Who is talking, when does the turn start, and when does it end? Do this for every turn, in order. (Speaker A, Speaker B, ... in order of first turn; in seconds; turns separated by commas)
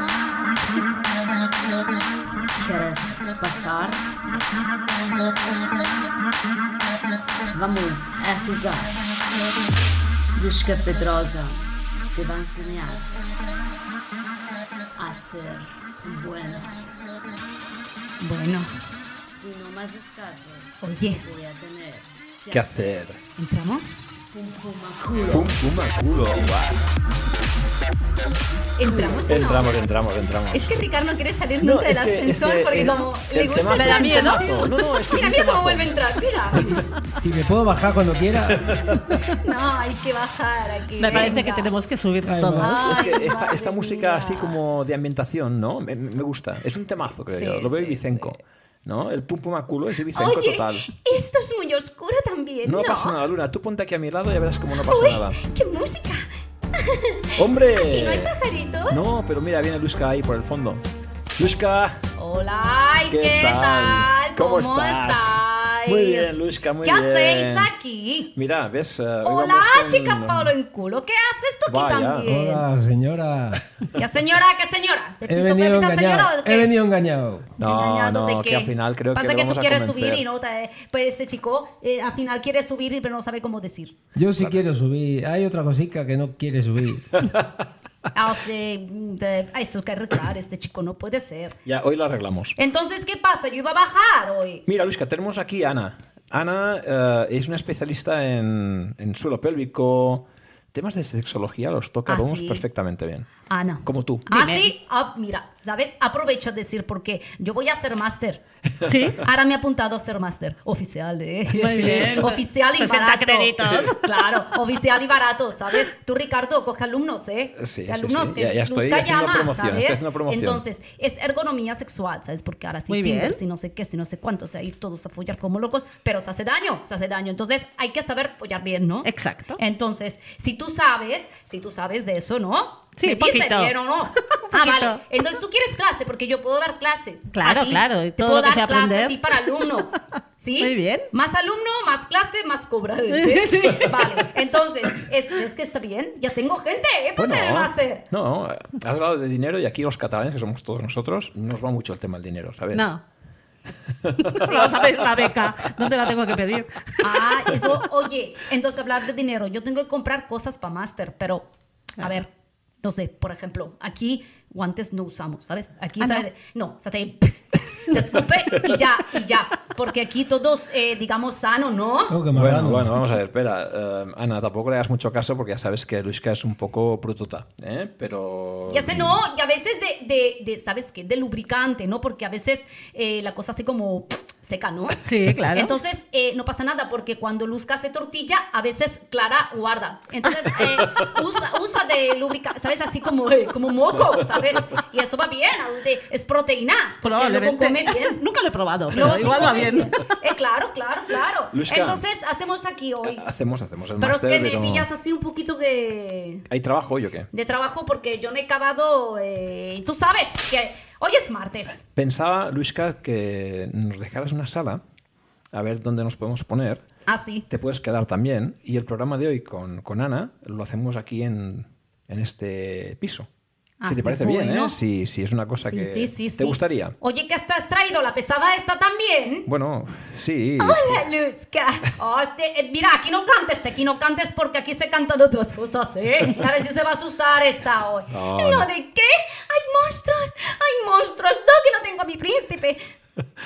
Speaker A: 2.6-4.2, Speaker A: 7.5-9.2, Speaker A: 10.4-11.6, Speaker A: 12.1-13.1, Speaker A: 15.0-16.9, Speaker B: 18.2-18.7, Speaker A: 19.3-22.9, Speaker B: 20.8-21.3, Speaker C: 22.5-23.2, Speaker B: 23.4-24.0, Speaker A: 24.3-25.6, Speaker C: 25.3-26.9, Speaker B: 28.8-29.7, Speaker C: 29.3-30.7, Speaker B: 30.5-36.9, Speaker C: 31.6-36.0, Speaker D: 33.7-34.9, Speaker C: 36.5-36.8, Speaker E: 37.2-38.8, Speaker C: 38.5-39.1, Speaker B: 39.4-41.7, Speaker D: 41.0-43.0, Speaker E: 42.2-42.8, Speaker B: 42.6-44.6, Speaker C: 42.7-50.9, Speaker B: 47.3-48.4, Speaker B: 50.1-53.2, Speaker C: 52.6-55.4, Speaker B: 54.8-59.0, Speaker C: 57.4-58.4, Speaker C: 58.9-60.8, Speaker C: 61.4-62.0, Speaker B: 62.2-68.3, Speaker C: 63.1-67.7, Speaker C: 68.3-70.5, Speaker B: 69.2-72.7, Speaker C: 71.7-72.3, Speaker E: 72.2-73.6, Speaker B: 73.9-76.7, Speaker E: 75.3-77.5, Speaker C: 77.6-80.2, Speaker B: 77.6-84.0, Speaker E: 84.2-87.2, Speaker C: 84.4-84.6, Speaker C: 87.2-87.5, Speaker B: 88.1-91.6, Speaker C: 91.7-92.6, Speaker B: 92.6-94.6, Speaker C: 94.7-103.3, Speaker B: 102.1-102.6, Speaker B: 103.5-108.4, Speaker C: 103.8-104.3, Speaker D: 104.3-104.7, Speaker D: 108.8-109.2, Speaker B: 109.2-148.1, Speaker D: 111.5-114.5, Speaker C: 117.6-120.6, Speaker D: 122.9-123.4, Speaker D: 129.1-129.6, Speaker D: 133.0-133.7, Speaker D: 134.4-135.0, Speaker D: 137.3-139.5, Speaker D: 140.6-141.1, Speaker D: 143.1-144.2, Speaker C: 147.2-152.9, Speaker D: 152.7-153.0, Speaker C: 154.0-154.9, Speaker D: 154.2-157.5, Speaker B: 157.0-161.5, Speaker B: 162.0-162.3, Speaker B: 162.8-172.2, Speaker E: 172.1-173.0, Speaker C: 172.3-179.2, Speaker B: 178.7-198.2, Speaker D: 185.1-185.8, Speaker D: 197.0-200.0, Speaker B: 198.9-203.3, Speaker C: 199.0-199.6, Speaker C: 201.5-202.0, Speaker C: 203.0-204.9, Speaker B: 204.0-206.5, Speaker C: 206.5-207.3, Speaker B: 207.3-211.8, Speaker C: 211.9-214.8, Speaker C: 215.5-216.8, Speaker B: 217.1-217.5, Speaker C: 217.5-223.3, Speaker B: 223.8-224.8, Speaker C: 223.9-226.9, Speaker B: 225.6-229.5, Speaker C: 229.5-231.0, Speaker B: 230.6-242.8, Speaker C: 238.1-238.7